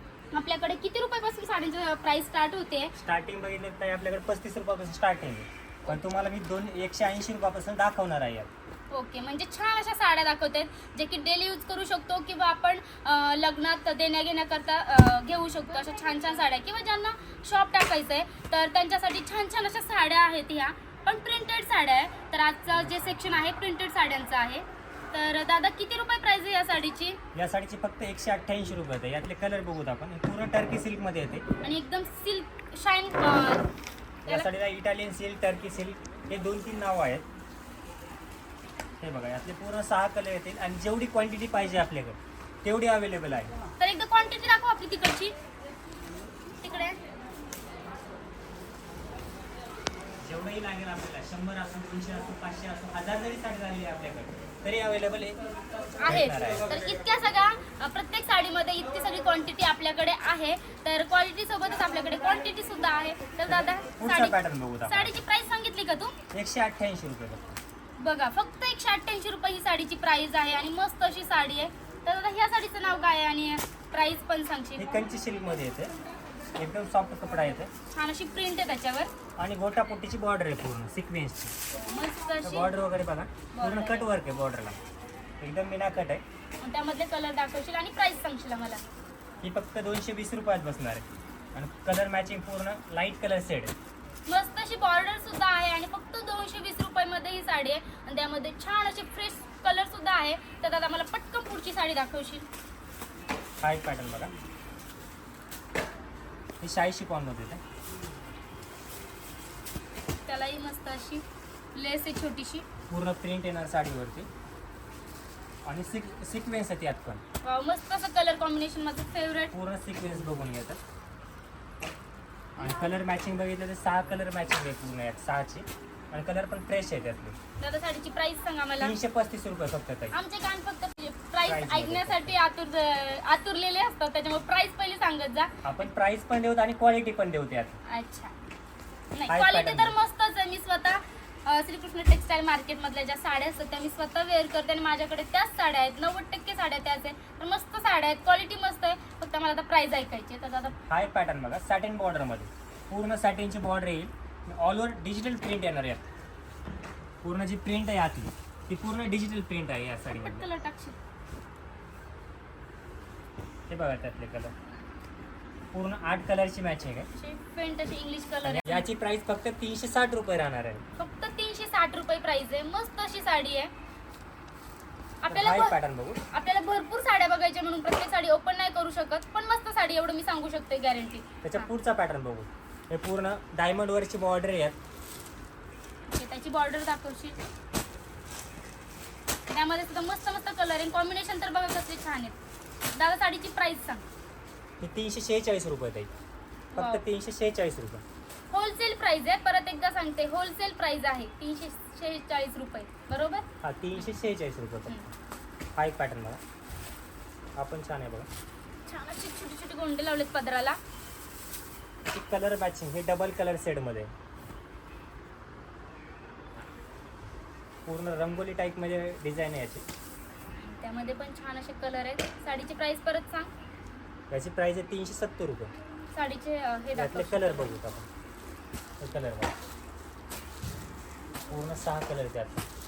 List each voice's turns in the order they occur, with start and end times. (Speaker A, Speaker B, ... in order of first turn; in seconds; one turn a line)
Speaker A: 0.3-2.9
Speaker B: 3.0-8.5
Speaker A: 8.9-27.2
Speaker B: 27.3-31.4
Speaker A: 31.6-33.7
Speaker B: 34.2-37.2
Speaker B: 39.0-43.5
Speaker A: 43.8-45.3
Speaker A: 46.6-47.0
Speaker B: 50.2-55.4
Speaker A: 56.0-64.3
Speaker B: 56.0-56.8
Speaker B: 63.5-65.1
Speaker A: 64.9-66.2
Speaker B: 66.3-67.4
Speaker A: 68.0-75.1
Speaker B: 74.8-75.9
Speaker B: 76.6-77.7
Speaker A: 77.9-79.1
Speaker B: 79.4-81.5
Speaker A: 81.7-82.7
Speaker B: 82.4-84.8
Speaker A: 83.5-84.1
Speaker B: 85.4-86.2
Speaker A: 86.6-88.8
Speaker B: 89.4-93.7
Speaker A: 94.3-102.5
Speaker B: 103.6-104.3
Speaker B: 106.6-107.6
Speaker A: 110.3-111.2
Speaker A: 111.8-112.7
Speaker B: 112.9-114.3
Speaker B: 115.7-117.2
Speaker A: 117.4-119.5
Speaker B: 119.5-120.8
Speaker B: 122.6-127.4
Speaker A: 127.6-128.9
Speaker B: 128.8-130.2
Speaker A: 130.1-135.5
Speaker B: 131.4-132.3
Speaker B: 135.6-137.8
Speaker A: 137.9-138.3
Speaker A: 139.1-150.8
Speaker B: 139.3-140.0
Speaker B: 150.9-156.1
Speaker B: 157.2-160.5
Speaker A: 160.2-161.0
Speaker B: 163.7-164.5
Speaker B: 165.7-167.1
Speaker A: 167.1-168.9
Speaker B: 168.4-170.8
Speaker A: 171.0-173.7
Speaker A: 175.2-175.8
Speaker B: 175.3-176.2
Speaker A: 176.3-181.7
Speaker B: 181.4-184.8
Speaker A: 186.1-187.4
Speaker A: 189.5-192.4
Speaker A: 193.0-194.0
Speaker B: 194.8-196.1
Speaker B: 196.8-198.0
Speaker A: 196.8-197.0
Speaker A: 198.5-203.5
Speaker B: 203.6-205.1
Speaker B: 205.8-206.4
Speaker B: 207.6-208.3
Speaker A: 208.9-210.8
Speaker B: 212.1-214.1
Speaker B: 217.9-219.8
Speaker A: 220.6-223.5
Speaker B: 224.3-225.7
Speaker A: 226.1-227.7
Speaker B: 226.9-228.1
Speaker B: 229.0-229.5
Speaker B: 231.5-232.7